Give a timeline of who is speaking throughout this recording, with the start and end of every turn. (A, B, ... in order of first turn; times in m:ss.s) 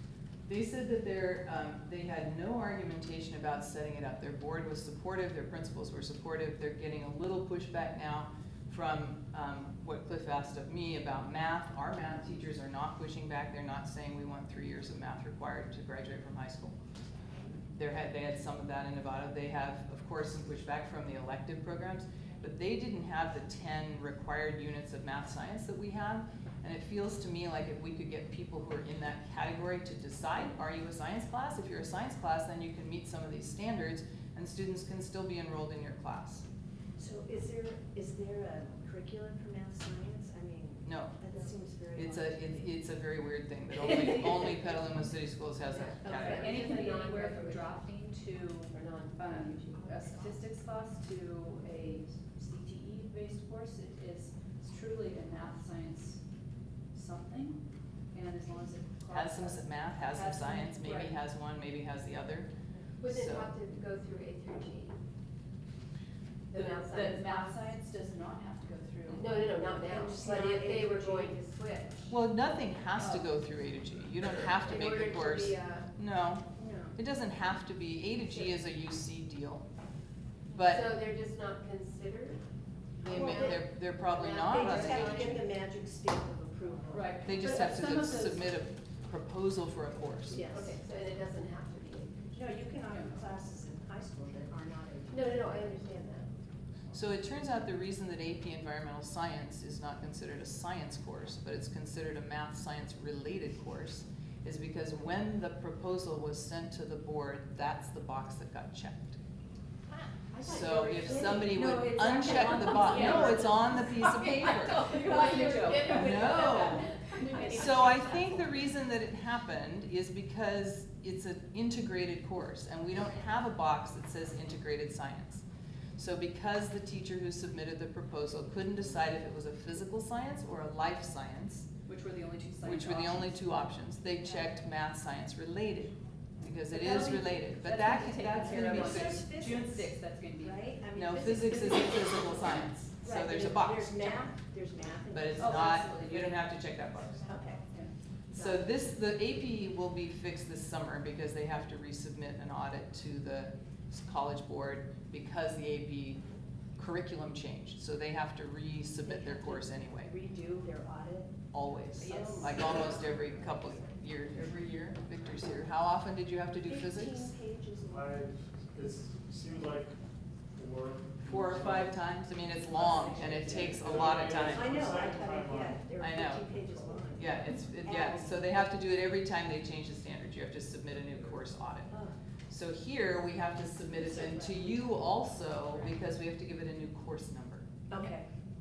0:00.5-0:16.8 A
0:17.7-0:36.4 A
0:37.0-0:42.6 B
0:40.8-0:41.2 A
0:41.9-0:46.6 A
0:45.6-0:47.9 C
0:46.0-0:56.2 D
0:48.7-0:50.4 C
0:56.9-0:57.6 D
0:58.1-1:01.2 D
0:59.1-1:02.5 A
1:03.0-1:05.0 C
1:03.0-1:03.5 A
1:06.5-1:07.7 C
1:06.5-1:09.5 D
1:09.1-1:12.1 C
1:09.7-1:11.3 B
1:12.1-1:19.6 A
1:13.0-1:13.3 D
1:14.6-1:15.9 C
1:16.6-1:17.0 B
1:20.5-1:20.9 A
1:20.6-1:22.4 C
1:23.0-1:23.6 B
1:23.0-1:25.4 A
1:23.0-1:25.4 C
1:24.4-1:27.2 B
1:26.9-1:28.5 D
1:27.2-1:30.6 A
1:30.3-1:30.8 B
1:30.5-1:32.3 C
1:32.3-1:35.9 B
1:32.9-1:33.2 D
1:35.1-1:36.3 C
1:36.9-1:49.2 A
1:50.3-1:53.8 B
1:50.4-2:05.4 A
1:52.7-1:53.6 D
1:54.1-1:58.2 C
1:54.7-1:56.3 D
1:55.0-1:57.7 B
1:57.2-1:57.9 D
2:06.0-2:11.7 A
2:11.8-2:13.5 D
2:12.6-2:19.2 A
2:16.7-2:20.8 D
2:18.5-2:26.0 B
2:20.9-2:24.2 A
2:25.1-2:27.4 A
2:25.4-2:26.3 D
2:27.2-2:27.6 B
2:28.3-2:36.2 A
2:28.3-2:28.7 B
2:36.8-2:40.1 A
2:39.0-2:41.4 B
2:41.5-2:47.3 A
2:41.9-2:43.8 B
2:42.1-2:42.5 D
2:46.6-2:48.3 B
2:47.8-2:50.0 E
2:50.5-2:52.0 E
2:51.2-2:54.9 A
2:52.7-2:58.6 B
2:52.7-2:56.0 E
2:56.0-2:56.5 A
2:56.6-2:57.1 E
2:57.1-3:01.9 A
3:01.9-3:02.2 B
3:02.5-3:07.7 A
3:04.1-3:04.5 D
3:07.9-3:08.3 B